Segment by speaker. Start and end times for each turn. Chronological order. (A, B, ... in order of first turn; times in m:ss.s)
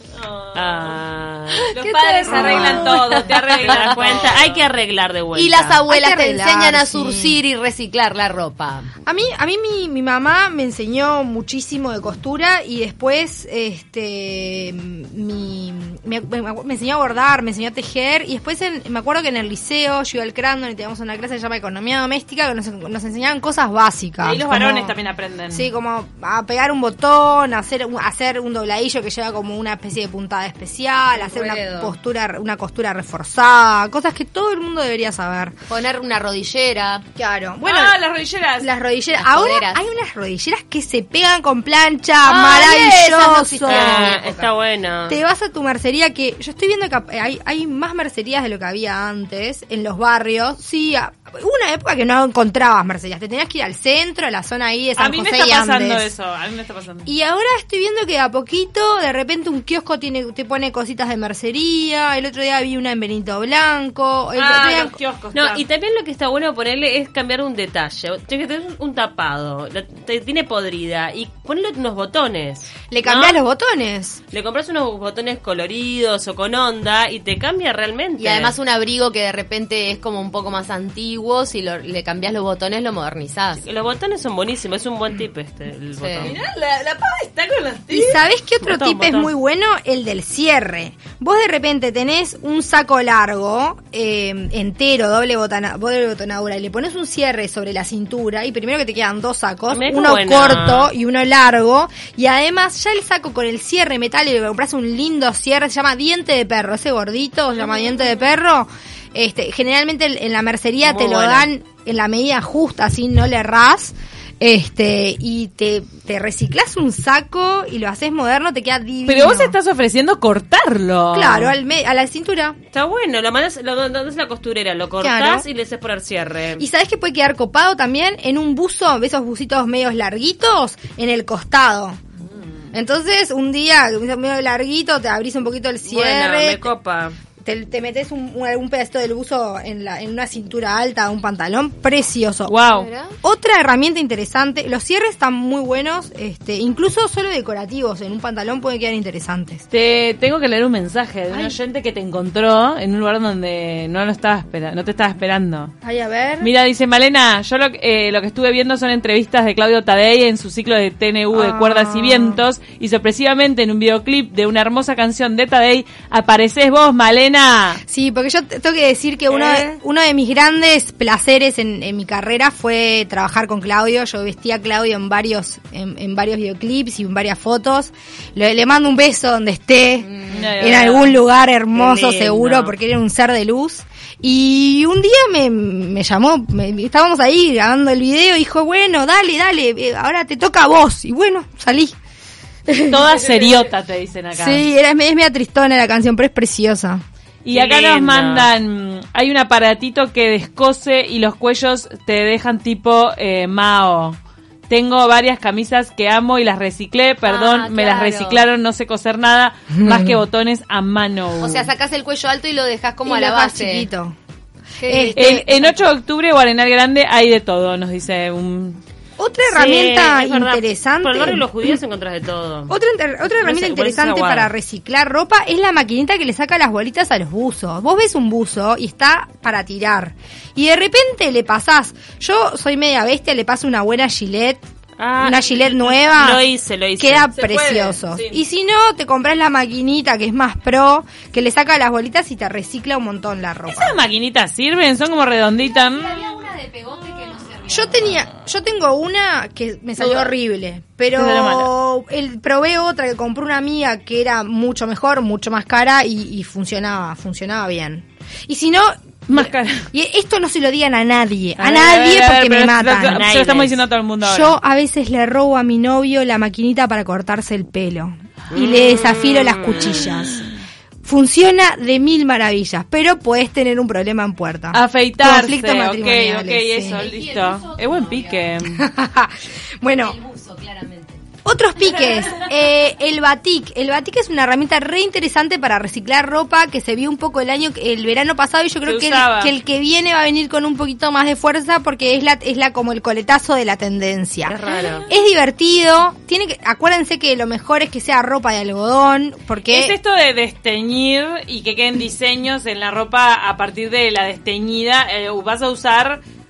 0:00.1-0:01.0 A
0:00.5-0:01.7 B
0:01.7-0:04.6 A
0:01.7-0:04.2 C
0:01.8-0:03.2 D
0:03.4-0:05.8 B
0:05.3-0:08.9 C
0:05.9-0:07.4 D
0:09.0-0:25.0 D
0:24.2-0:25.6 A
0:25.5-0:35.5 D
0:31.1-0:31.9 C
0:35.7-0:37.0 C
0:37.2-0:38.0 D
0:37.6-0:38.7 A
0:38.6-0:44.2 D
0:39.1-0:39.8 C
0:42.2-0:44.5 C
0:43.6-0:45.2 B
0:45.1-0:56.1 D
0:55.0-0:57.1 A
0:57.0-1:05.0 D
1:04.4-1:05.6 A
1:05.3-1:13.4 B
1:12.9-1:14.2 D
1:14.3-1:18.5 B
1:18.2-1:23.6 C
1:23.6-1:26.4 B
1:26.0-1:26.3 C
1:26.2-1:28.2 A
1:27.9-1:59.6 D
1:28.6-1:29.3 B
1:39.7-1:40.9 B
1:50.8-1:51.5 B
1:59.1-2:01.5 A
2:01.1-2:02.6 D
2:02.7-2:06.6 B
2:05.0-2:05.4 D
2:06.6-2:12.0 D
2:12.7-2:16.7 D
2:15.8-2:17.2 B
2:17.4-2:22.5 D
2:22.5-2:22.9 A
2:22.7-2:23.2 C
2:23.2-2:29.6 D
2:29.7-2:35.7 A
2:31.3-2:31.6 D
2:35.8-2:36.5 D
2:36.4-2:47.8 A
2:41.3-2:42.4 D
2:47.9-3:12.0 D
3:00.3-3:01.2 A
3:01.7-3:02.7 B
3:12.7-3:13.5 D
3:12.9-3:14.6 A
3:14.3-3:17.0 D
3:17.4-3:24.2 A
3:17.5-3:18.5 B
3:24.7-3:31.7 A
3:27.2-3:28.4 C
3:29.8-3:30.2 D
3:31.4-3:33.9 C
3:33.0-3:34.2 D
3:34.8-3:35.6 C
3:34.8-3:35.7 D
3:35.2-3:38.8 A
3:39.2-3:41.7 D
3:39.5-3:42.7 B
3:42.7-3:54.6 D
3:43.3-3:44.5 B
3:55.0-3:57.3 B
3:55.2-3:56.4 D
3:57.0-4:04.0 D
3:57.4-3:58.4 A
4:03.7-4:06.2 A
4:05.6-4:08.1 C
4:07.7-4:23.3 D
4:10.0-4:10.3 A
4:11.1-4:11.7 A
4:19.3-4:19.9 A
4:21.6-4:24.5 A
4:23.0-4:23.8 B
4:24.2-4:30.4 D
4:28.5-4:30.1 B
4:31.0-4:37.1 D
4:34.7-4:38.8 A
4:36.9-4:38.6 C
4:38.6-4:40.2 D
4:40.0-4:41.2 C
4:41.4-5:00.0 D
4:48.8-4:49.5 A
4:54.4-4:55.1 B
4:59.7-5:06.2 A